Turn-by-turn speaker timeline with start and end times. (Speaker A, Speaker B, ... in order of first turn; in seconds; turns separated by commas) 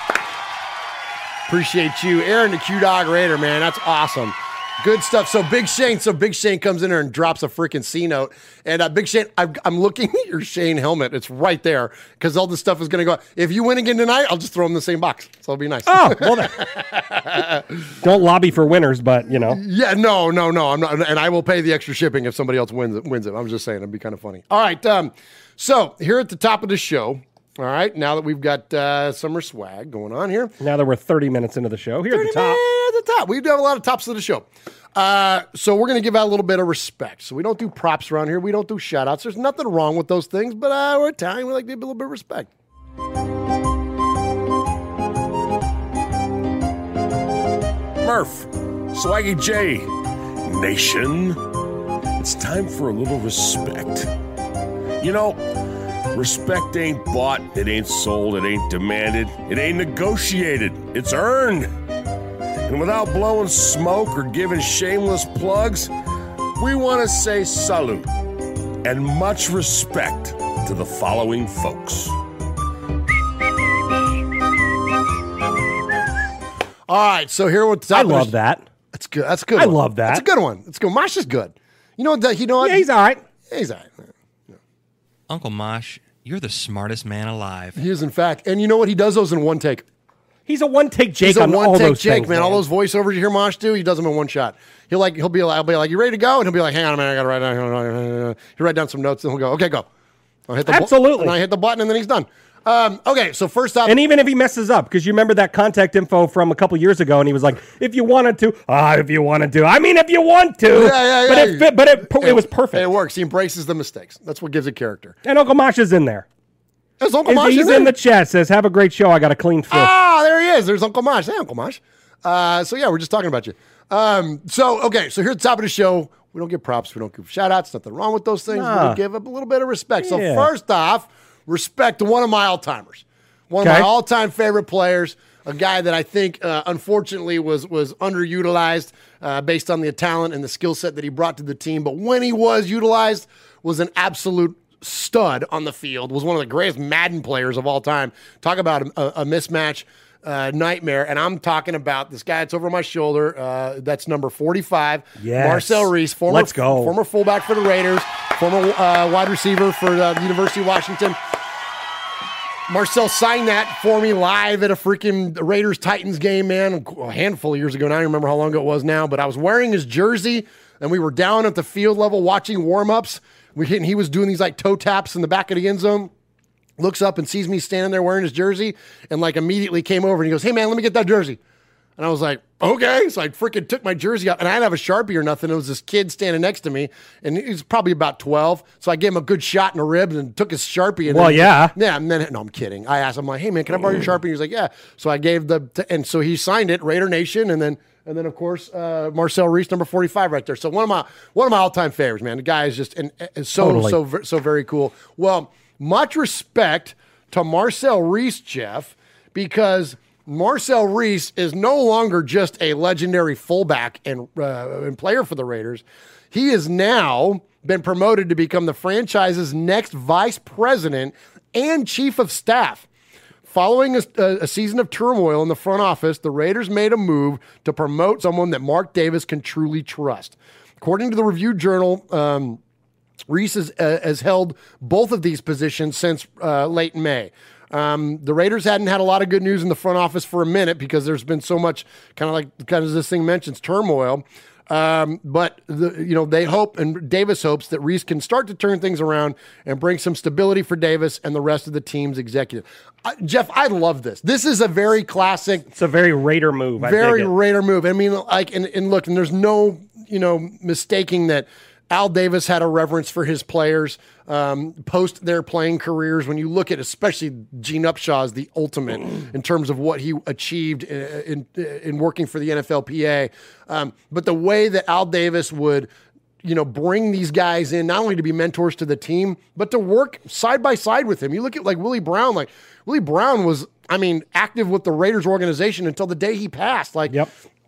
Speaker A: 1.5-17.9, Speaker B: 15.9-16.6, Speaker B: 18.0-19.6, Speaker A: 19.4-30.5, Speaker B: 30.6-32.6, Speaker A: 32.1-42.5, Speaker C: 48.0-49.9, Speaker C: 50.5-51.4, Speaker C: 52.2-54.1, Speaker C: 55.0-55.4, Speaker C: 56.1-61.7, Speaker C: 62.7-65.9, Speaker C: 66.6-68.1, Speaker C: 68.8-72.2, Speaker A: 76.9-78.3, Speaker B: 77.9-78.7, Speaker A: 78.9-82.8, Speaker B: 79.6-80.2, Speaker B: 82.6-83.2, Speaker A: 83.5-84.6, Speaker D: 85.3-87.8, Speaker A: 87.7-89.8, Speaker B: 90.5-92.6, Speaker A: 91.2-99.9, Speaker A: 100.5-104.0, Speaker B: 100.7-101.3, Speaker B: 103.9-112.9, Speaker A: 110.7-115.2, Speaker B: 115.2-116.3, Speaker A: 117.0-117.9, Speaker B: 117.3-119.9, Speaker A: 119.7-161.2, Speaker B: 128.5-129.0, Speaker B: 130.0-130.5, Speaker B: 133.6-133.9, Speaker B: 155.2-156.9, Speaker A: 162.7-176.1, Speaker A: 176.8-181.4, Speaker A: 182.0-222.9, Speaker B: 191.1-191.7, Speaker B: 203.6-204.0, Speaker A: 223.5-232.6, Speaker A: 233.3-255.7, Speaker B: 255.7-257.3, Speaker A: 256.8-275.9, Speaker A: 276.4-287.2